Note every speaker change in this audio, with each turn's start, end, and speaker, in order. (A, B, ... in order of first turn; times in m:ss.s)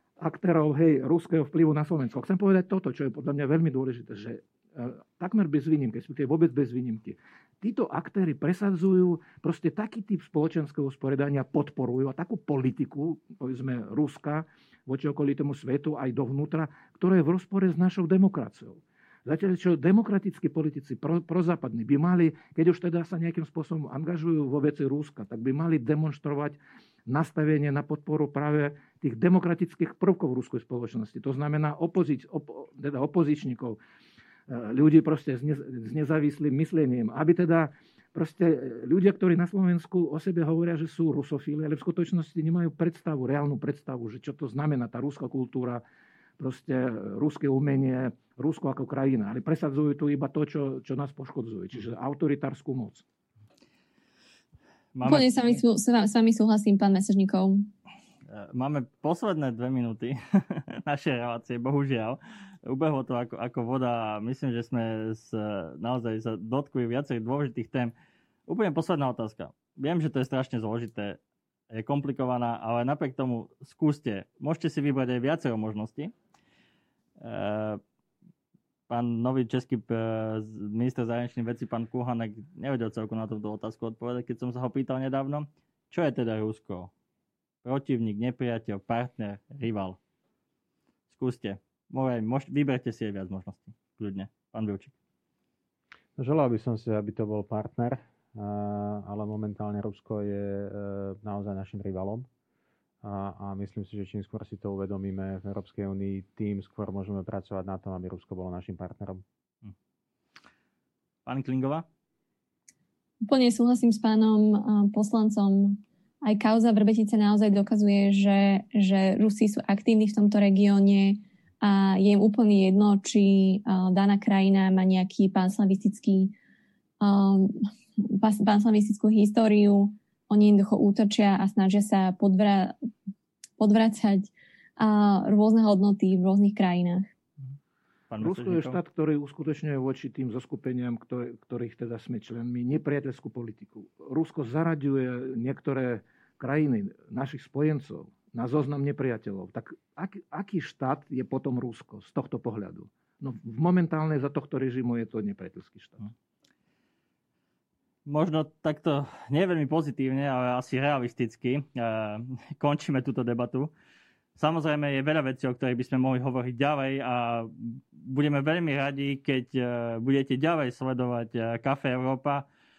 0:00.2-0:33.8 A
0:34.5-0:45.8 A
0:46.4-0:53.0 A
0:54.9-0:55.6 B
0:55.0-0:57.7 C
0:58.3-1:07.9 B
1:08.5-1:11.2 B
1:11.7-1:16.1 B
1:17.2-1:17.8 B
1:18.9-1:26.9 B
1:27.6-1:30.0 B
1:31.1-1:34.9 B
1:36.2-1:42.3 D
1:43.0-1:49.2 D
1:51.2-1:51.8 B
1:53.3-2:06.3 C
2:07.0-2:12.7 C
2:13.6-2:17.1 C
2:18.1-2:18.8 B
2:18.2-2:36.1 A
2:38.0-2:43.7 B
2:44.4-2:52.4 B